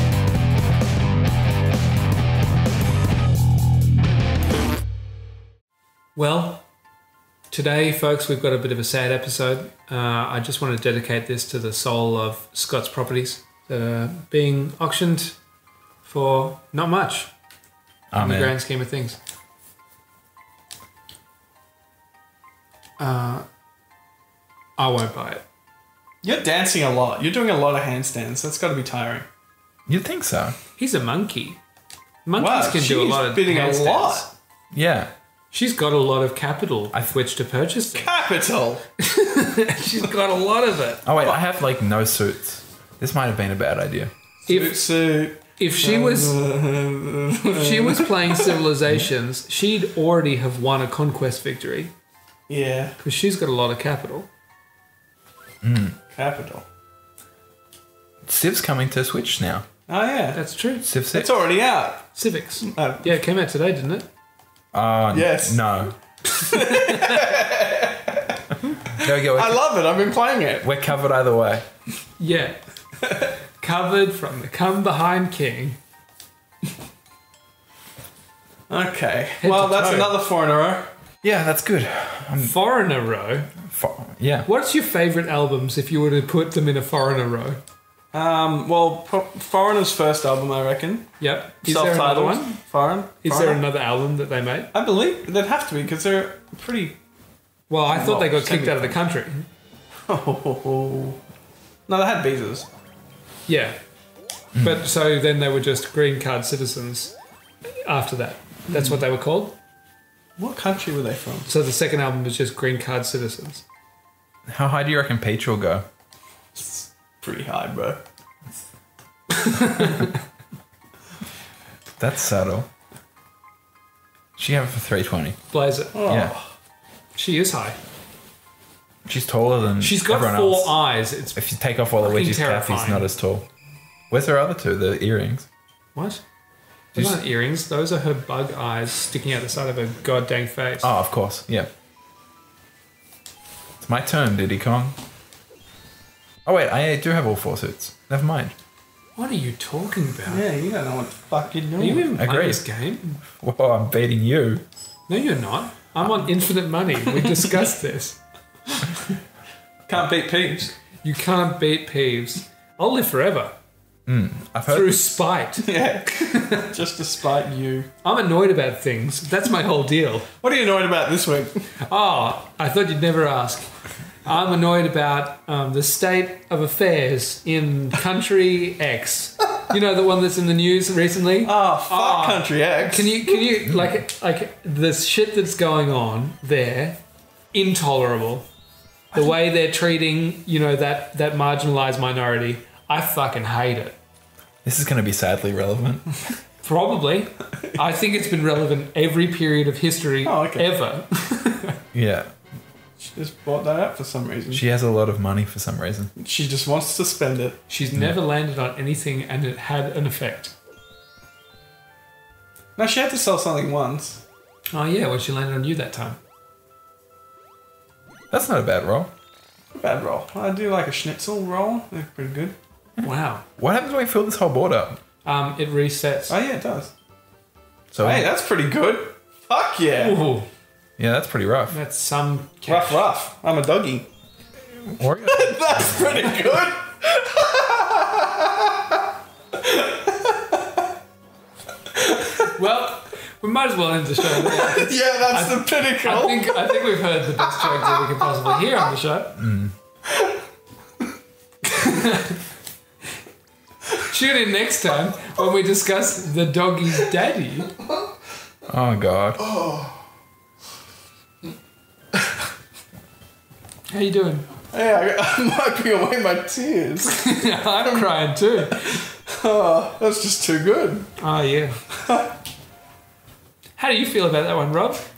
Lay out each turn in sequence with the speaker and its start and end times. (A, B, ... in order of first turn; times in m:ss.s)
0:06.2-0:06.6 A
0:07.5-0:15.4 A
0:16.0-0:17.3 A
0:18.1-0:18.6 B
0:18.2-0:19.2 A
0:23.0-0:23.4 A
0:24.8-0:25.4 A
0:26.2-0:29.2 C
0:29.9-0:30.6 B
0:30.8-0:31.6 A
0:32.2-0:34.3 A
0:32.4-0:34.3 C
0:34.7-0:35.1 B
0:35.5-0:38.1 A
0:37.9-0:38.8 C
0:39.0-0:41.0 A
0:41.0-0:44.1 B
0:44.5-0:44.9 A
0:44.5-0:48.6 C
0:45.6-0:46.4 A
0:47.4-0:51.9 A
0:52.5-0:53.0 C
0:53.0-0:54.3 A
0:55.6-0:56.0 B
0:56.1-0:56.6 C
0:58.2-0:59.6 B
0:59.9-1:00.4 C
1:00.3-1:00.9 A
1:00.8-1:01.3 B
1:01.1-1:02.1 C
1:02.1-1:04.1 A
1:02.6-1:03.2 C
1:04.7-1:06.0 B
1:05.1-1:05.6 C
1:06.3-1:08.4 C
1:06.6-1:07.3 A
1:08.9-1:09.6 B
1:08.9-1:10.7 C
1:10.6-1:11.6 B
1:12.2-1:12.6 A
1:13.6-1:15.8 A
1:18.7-1:20.9 C
1:19.4-1:20.1 A
1:21.2-1:22.6 B
1:22.4-1:23.6 A
1:23.7-1:24.5 B
1:24.4-1:27.6 A
1:28.1-1:33.6 C
1:31.2-1:32.6 A
1:33.2-1:34.7 A
1:34.7-1:37.0 C
1:37.7-1:39.5 A
1:37.9-1:39.0 C
1:40.1-1:41.2 C
1:41.9-1:42.7 C
1:43.5-1:43.8 A
1:44.6-1:44.8 B
1:44.6-1:47.2 A
1:47.7-1:49.6 A
1:48.7-1:49.0 C
1:50.4-1:51.5 C
1:51.5-1:53.6 A
1:54.5-1:55.8 B
1:56.6-1:58.0 C
1:59.3-2:00.1 A
2:02.0-2:02.7 B
2:04.4-2:05.4 B
2:05.5-2:06.0 A
2:05.9-2:06.5 C
2:06.1-2:06.3 B
2:07.2-2:07.8 A
2:09.0-2:10.8 B
2:09.8-2:11.4 A
2:11.3-2:13.5 B
2:12.0-2:13.1 A
2:14.1-2:15.5 B
2:16.0-2:16.2 A
2:16.9-2:20.9 A
2:20.8-2:21.7 B
2:23.8-2:25.0 B
2:26.5-2:28.5 B
2:29.2-2:30.4 A
2:30.3-2:32.1 C
2:31.8-2:33.2 A
2:32.1-2:32.6 B
2:33.4-2:34.6 B
2:35.1-2:38.2 A
2:37.2-2:37.5 C
2:39.9-2:40.8 C
2:41.0-2:43.5 A
2:44.1-2:45.0 B
2:44.7-2:46.7 A
2:45.6-2:47.9 C
2:48.0-2:50.3 A
2:50.4-2:51.7 C
2:51.8-2:53.7 A
2:54.2-3:07.0 A
3:01.4-3:03.3 C
3:03.6-3:04.0 B
3:07.5-3:08.5 A
3:09.1-3:14.0 A
3:14.6-3:16.2 B
3:16.6-3:21.8 A
3:20.2-3:20.7 C
3:21.9-3:22.3 B
3:23.0-3:24.6 C
3:24.5-3:26.1 B
3:26.2-3:27.6 C
3:27.7-3:30.5 A
3:32.8-3:34.2 C
3:34.7-3:36.2 A
3:38.3-3:39.1 B
3:39.8-3:42.6 C
3:43.0-3:43.4 A
3:43.0-3:45.0 B
3:45.2-3:46.4 A
3:46.3-3:46.9 C
3:47.9-3:48.3 B
3:48.0-3:50.2 C
3:50.0-3:50.5 A
3:51.0-3:51.8 B
3:51.7-3:53.0 A
3:52.7-3:54.1 C
3:54.7-3:56.0 B
3:55.2-3:59.0 C
3:59.6-4:00.8 C
4:02.0-4:02.3 C
4:02.4-4:09.4 A
4:04.3-4:07.0 C
4:07.6-4:08.0 C
4:09.4-4:09.7 B
4:11.6-4:12.4 A
4:14.0-4:17.7 A
4:18.7-4:19.4 B
4:19.4-4:20.0 C
4:23.9-4:24.5 A
4:24.7-4:31.1 C
4:27.0-4:29.0 A
4:31.2-4:31.8 A
4:32.0-4:32.3 C
4:33.8-4:35.1 A